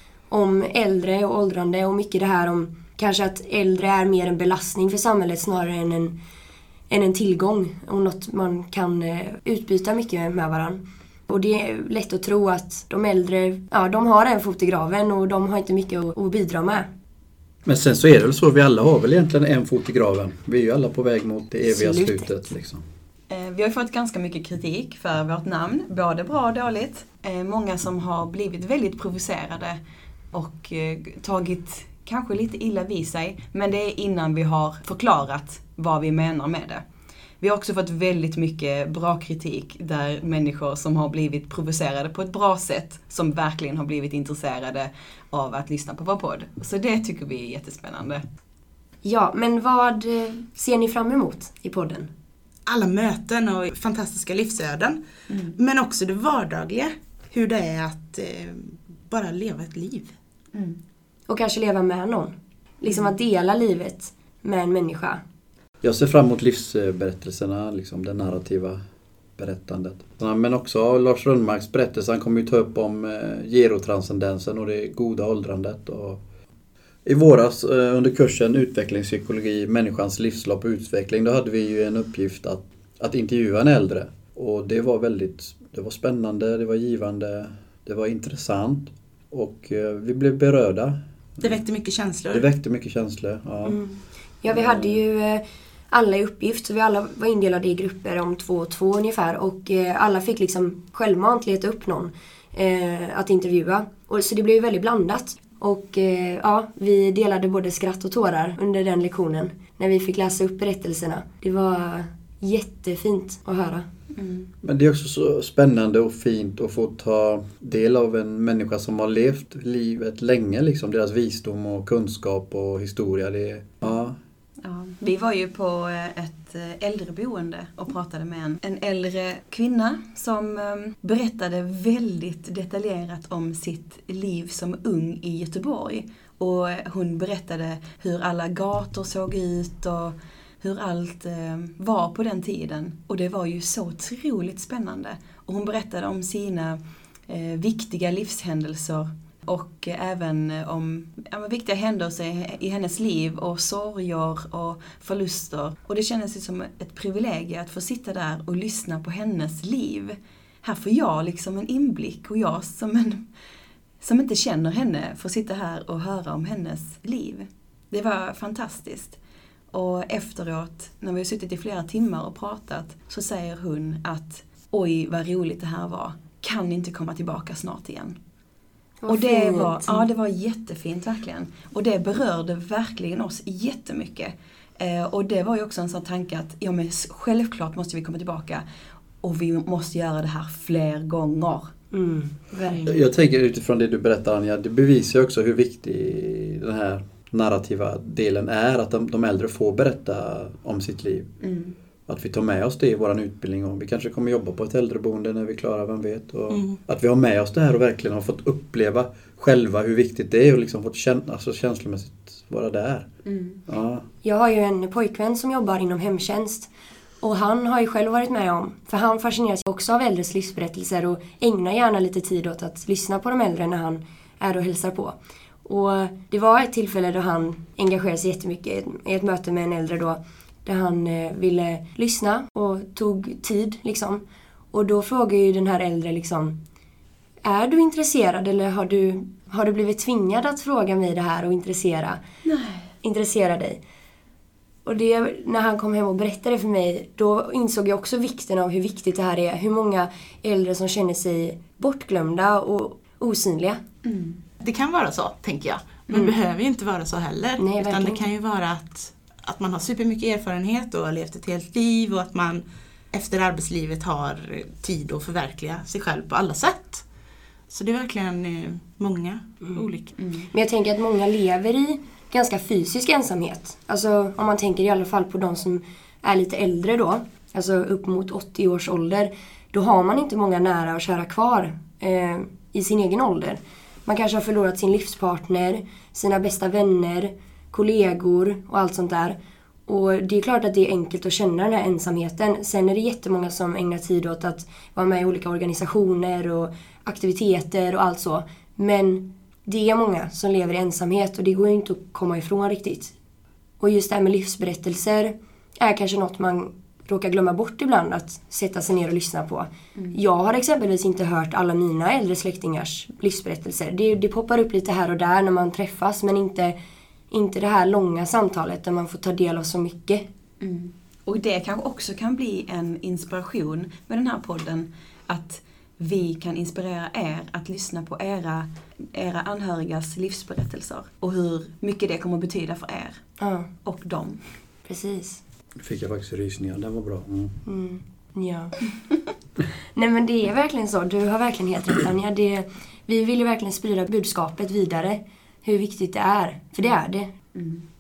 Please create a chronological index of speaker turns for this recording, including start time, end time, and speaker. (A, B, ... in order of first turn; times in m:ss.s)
0:00.3-0:06.2 A
0:06.9-0:16.9 A
0:17.7-0:22.8 B
0:21.6-0:22.3 A
0:23.3-0:29.8 C
0:30.3-0:36.8 C
0:37.4-0:48.2 C
0:49.0-0:52.1 A
0:52.7-0:55.0 D
0:55.3-0:55.6 C
0:55.6-1:00.1 D
1:00.5-1:00.8 C
1:01.3-1:05.2 A
1:02.9-1:03.1 C
1:05.8-1:08.8 B
1:09.4-1:16.2 B
1:17.0-1:31.6 B
1:31.4-1:32.5 D
1:32.3-1:33.8 B
1:33.6-1:53.9 A
1:34.5-1:35.0 B
1:54.1-1:54.5 C
1:54.6-2:04.2 B
2:04.6-2:43.3 C
2:44.0-2:49.2 C
2:49.7-2:58.2 C
2:59.0-3:00.0 A
2:59.1-3:08.6 C
3:09.2-3:11.7 C
3:11.9-3:12.9 A
3:12.8-3:21.3 B
3:21.4-3:21.8 C
3:22.1-3:33.1 B
3:26.5-3:26.8 D
3:33.3-3:33.6 C
3:33.7-3:34.0 B
3:34.2-3:36.7 A
3:37.2-3:56.6 A
3:57.4-4:02.2 A
4:02.4-4:02.9 C
4:03.0-4:03.8 A
4:04.8-4:13.8 A
4:14.0-4:14.4 C
4:14.6-4:27.0 D
4:17.6-4:18.3 A
4:27.7-4:30.1 D
4:30.2-4:30.5 C
4:30.5-5:03.1 A
5:03.8-5:16.8 A
5:17.3-5:20.3 A
5:20.6-5:33.2 C
5:33.4-5:33.7 A
5:33.8-5:34.4 C
5:34.9-5:35.4 A
5:35.8-5:37.6 B
5:37.6-5:38.8 A
5:40.0-5:47.3 A
5:47.5-5:47.8 C